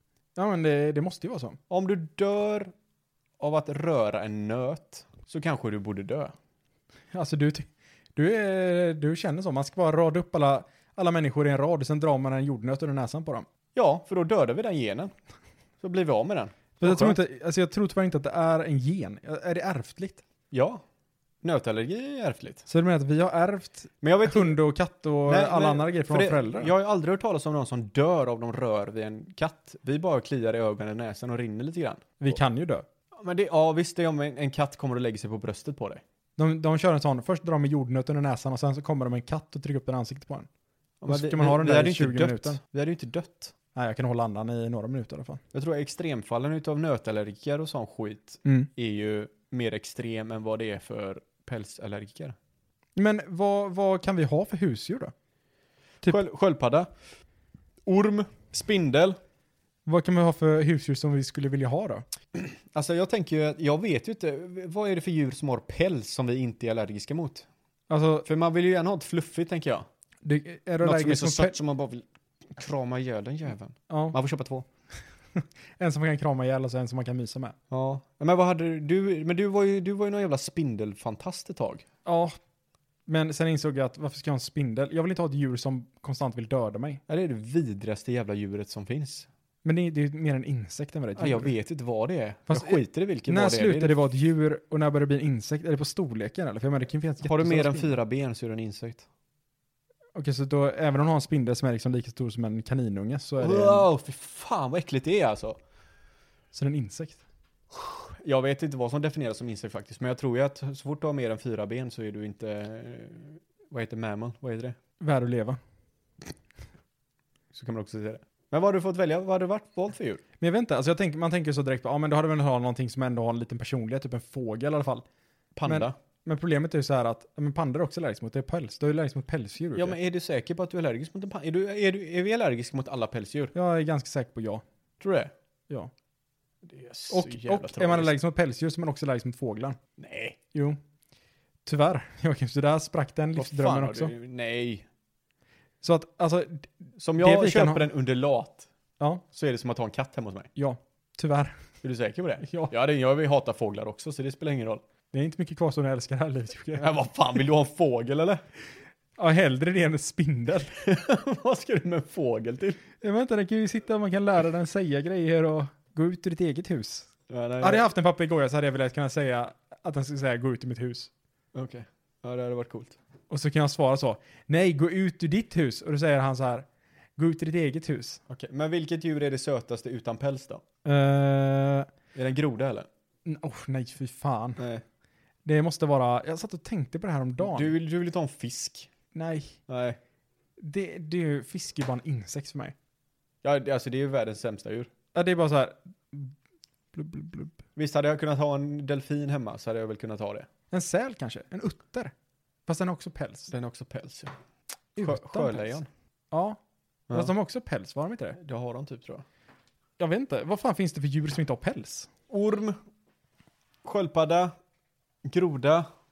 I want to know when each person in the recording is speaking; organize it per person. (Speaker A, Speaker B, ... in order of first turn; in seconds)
Speaker A: 0.3-1.6, 7.1-13.4, 16.8-20.2, 22.7-26.7, 32.2-32.8, 36.4-40.5, 41.1-42.6, 43.7-45.4, 53.0-55.1, 59.9-62.0, 67.9-68.3, 70.2-71.5, 73.9-74.2, 75.3-77.5, 82.0-82.4, 83.1-87.0, 89.6-91.5, 92.5-98.0, 100.1-103.9, 106.5-107.2, 115.0-115.6, 120.4-125.0, 125.7-130.0, 133.5-134.6, 137.1-139.8, 140.5-140.8, 141.6-144.1, 145.8-147.9, 150.6-151.6, 152.4-152.7, 155.1-156.9, 159.2-160.7, 163.0-167.1, 167.6-171.1, 173.3-176.7, 177.2-178.2, 180.8-181.9, 183.2-184.6, 185.4-187.7, 189.1-189.6, 190.6-192.7, 195.1-196.3, 196.9-197.6, 200.7-202.1, 202.7-203.5, 204.9-205.8, 206.3-206.6, 207.1-208.4, 210.0-212.1
Speaker B: 1.7-2.7, 3.4-6.3, 13.7-15.1, 15.8-17.2, 20.5-20.8, 21.4-22.6, 24.0-24.6, 25.3-32.4, 33.1-36.0, 41.0-43.5, 45.5-52.4, 56.0-56.9, 57.9-59.1, 62.3-67.5, 68.2-69.8, 70.8-74.7, 77.7-81.8, 87.1-89.3, 91.2-94.0, 97.2-99.0, 103.4-105.6, 107.7-114.8, 117.5-120.2, 125.5-125.9, 129.8-133.5, 135.0-135.3, 136.6-138.1, 140.0-140.4, 143.3-144.8, 147.0-148.7, 149.3-150.5, 151.8-154.8, 156.8-158.4, 160.8-162.8, 167.3-167.8, 171.5-173.0, 178.3-180.6, 182.1-182.9, 184.6-184.8, 187.4-188.9, 189.7-190.0, 193.4-194.9, 197.8-200.5, 203.5-204.3, 205.0-205.9, 208.3-209.2, 212.3-212.8, 213.8-214.5, 215.2-215.8